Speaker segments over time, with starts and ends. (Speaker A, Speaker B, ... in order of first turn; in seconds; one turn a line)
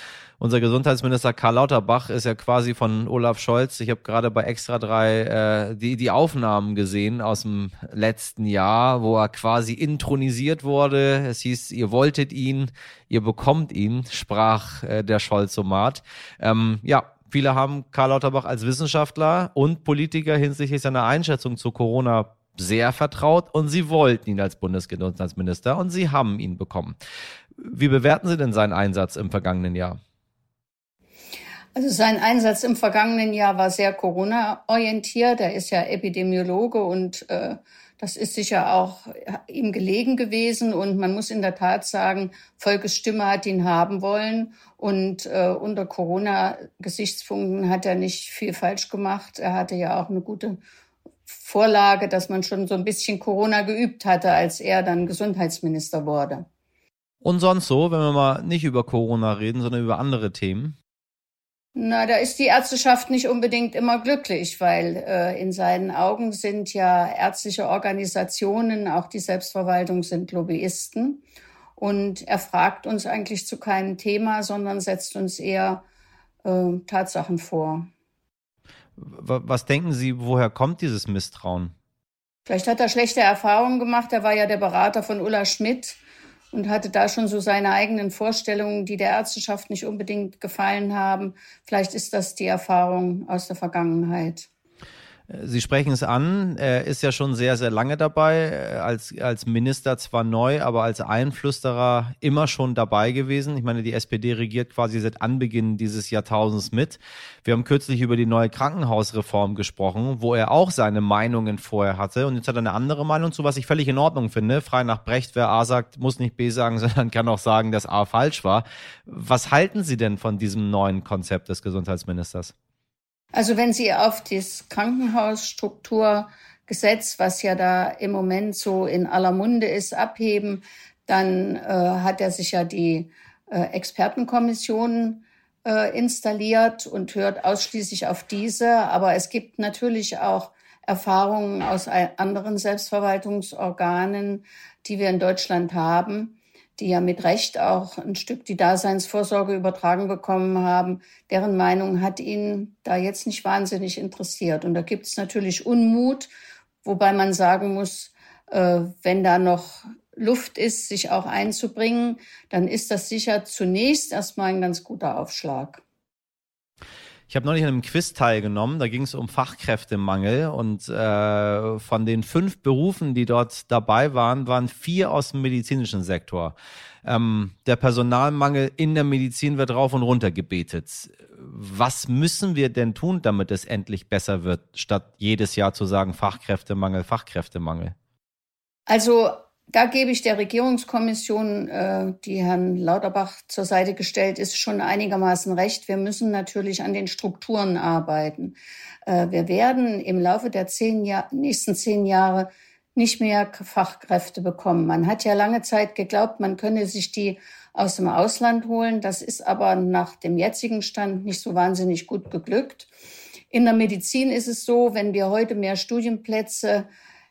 Speaker A: 0.4-27.0
Speaker A: 27.6-30.0
Speaker B: 31.7-50.6
Speaker B: 51.3-56.5
Speaker A: 57.2-60.8
Speaker B: 61.7-71.2
Speaker B: 71.8-75.8
Speaker B: 76.4-77.9
Speaker A: 79.0-81.7
Speaker B: 82.5-86.0
Speaker B: 86.5-94.5
Speaker A: 95.3-122.5
Speaker B: 123.3-156.3
Speaker B: 156.8-165.8
Speaker A: 167.3-187.9
Speaker B: 188.9-212.9
Speaker B: 213.5-216.9